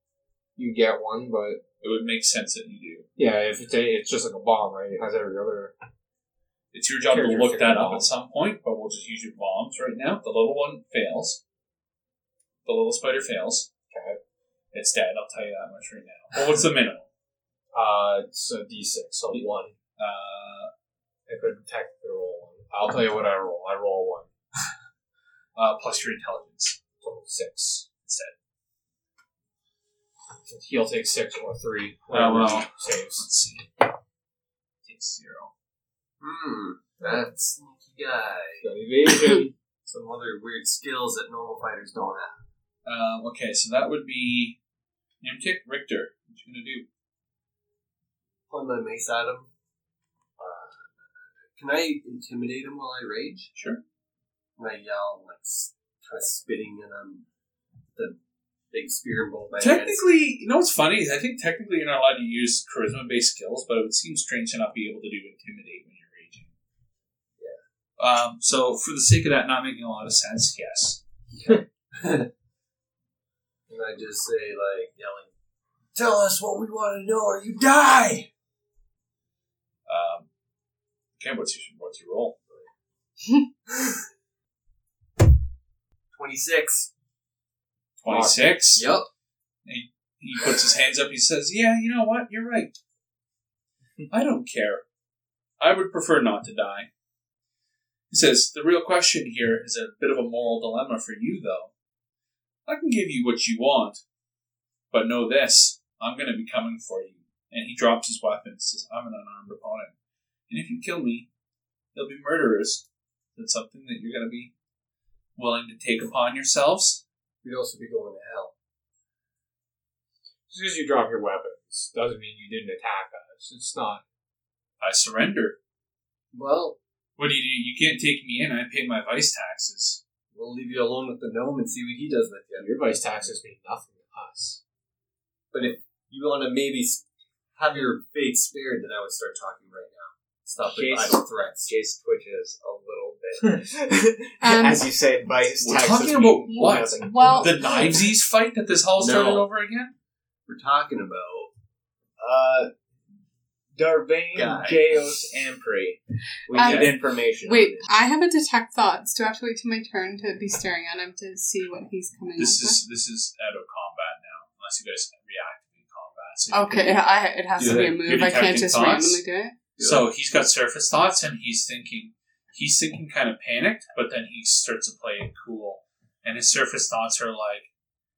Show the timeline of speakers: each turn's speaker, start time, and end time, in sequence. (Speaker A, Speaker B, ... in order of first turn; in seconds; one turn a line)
Speaker A: 0.6-1.6
Speaker B: 1.8-3.1
Speaker A: 3.2-5.7
Speaker B: 6.7-11.4
Speaker A: 7.0-8.1
Speaker B: 12.7-13.7
Speaker A: 13.9-14.2
Speaker B: 14.7-17.1
Speaker A: 17.7-19.8
Speaker B: 20.0-20.7
Speaker A: 21.3-24.3
Speaker B: 25.6-26.8
Speaker A: 27.0-27.9
Speaker B: 28.0-28.3
Speaker A: 30.4-33.3
Speaker B: 32.1-33.9
Speaker B: 34.8-35.5
Speaker C: 36.2-38.7
Speaker A: 38.6-39.5
Speaker C: 39.9-42.4
Speaker B: 42.9-44.6
Speaker B: 45.2-46.9
Speaker C: 48.5-49.5
Speaker C: 50.4-50.9
Speaker C: 51.6-53.5
Speaker B: 53.5-53.8
Speaker C: 54.6-57.3
Speaker C: 58.7-60.0
Speaker B: 59.6-66.5
Speaker B: 68.0-71.0
Speaker C: 71.3-72.3
Speaker C: 73.7-75.3
Speaker C: 76.0-78.3
Speaker B: 79.9-80.3
Speaker B: 81.2-82.3
Speaker C: 86.1-86.9
Speaker B: 88.0-88.9
Speaker C: 88.1-89.1
Speaker B: 89.7-92.8
Speaker B: 94.1-94.8
Speaker B: 95.6-96.9
Speaker B: 98.1-101.7
Speaker B: 102.7-104.0
Speaker B: 104.9-109.9
Speaker B: 110.5-111.3
Speaker B: 111.9-114.5
Speaker B: 115.4-117.0
Speaker C: 117.4-118.5
Speaker A: 120.5-124.0
Speaker B: 124.8-125.6
Speaker C: 126.3-126.8
Speaker B: 127.2-130.0
Speaker C: 130.3-132.8
Speaker A: 132.6-134.6
Speaker C: 135.5-137.0
Speaker C: 137.6-141.7
Speaker D: 140.6-147.7
Speaker E: 144.4-144.9
Speaker B: 145.6-149.9
Speaker E: 146.5-148.0
Speaker C: 149.0-149.5
Speaker C: 150.5-151.5
Speaker D: 152.2-152.7
Speaker D: 153.8-158.0
Speaker C: 154.3-154.9
Speaker E: 156.5-162.8
Speaker B: 156.5-157.0
Speaker B: 162.4-169.2
Speaker E: 166.5-169.6
Speaker C: 167.6-168.0
Speaker C: 169.8-170.1
Speaker B: 169.8-177.7